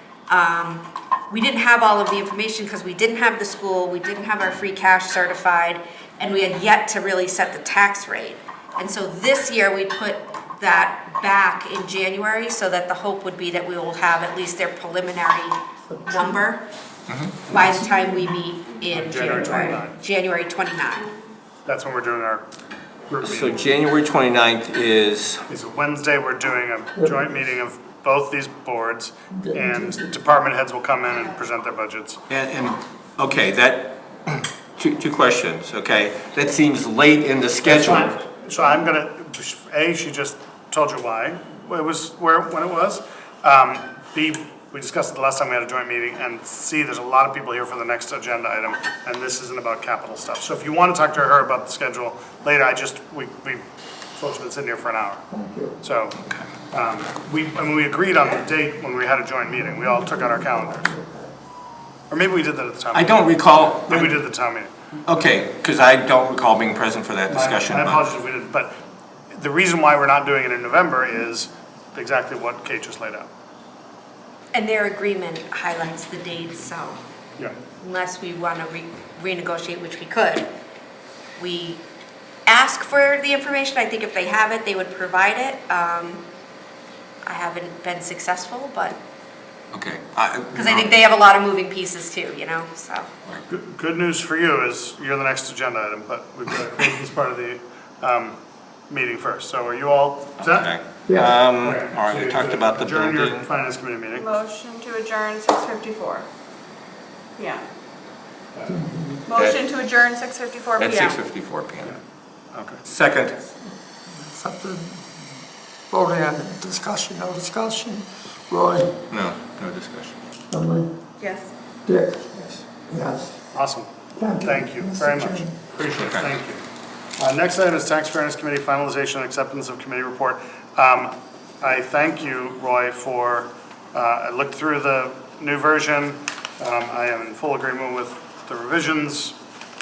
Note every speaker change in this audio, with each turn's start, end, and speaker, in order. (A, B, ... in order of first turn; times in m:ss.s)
0:00.3-0:16.6 A
0:15.9-0:16.4 B
0:17.5-0:21.1 A
0:17.5-0:18.3 B
0:18.9-0:19.9 C
0:19.4-0:19.7 B
0:21.6-0:22.4 C
0:23.1-0:23.6 C
0:23.2-0:25.4 D
0:25.5-0:32.2 C
0:27.0-0:27.4 B
0:29.3-0:30.1 B
0:32.3-0:38.1 D
0:37.6-0:53.6 C
0:54.2-0:55.2 C
0:55.3-0:55.7 B
0:55.8-0:56.2 C
0:56.7-1:00.9 C
0:59.5-1:01.3 B
1:02.1-1:04.7 C
1:02.9-1:04.2 D
1:05.0-1:08.0 D
1:07.3-1:08.7 C
1:09.3-1:13.3 C
1:14.5-1:17.0 A
1:17.8-1:20.5 A
1:21.4-1:21.8 A
1:22.4-1:26.2 A
1:27.2-1:29.0 A
1:29.7-1:30.9 D
1:30.5-1:33.1 A
1:33.5-1:38.4 C
1:38.9-1:40.7 C
1:40.4-1:43.5 D
1:41.6-1:44.4 C
1:44.2-1:46.3 E
1:47.4-1:47.6 E
1:48.7-1:49.2 B
1:49.2-1:51.2 E
1:49.3-1:49.6 D
1:50.8-1:51.9 D
1:52.5-1:52.8 C
1:52.8-1:53.4 D
1:54.2-1:55.0 B
1:55.9-1:59.0 B
1:59.1-2:00.2 D
2:00.5-2:00.9 B
2:01.2-2:01.5 E
2:01.8-2:03.3 B
2:03.5-2:06.6 C
2:04.2-2:05.5 B
2:05.9-2:06.3 D
2:07.2-2:19.4 C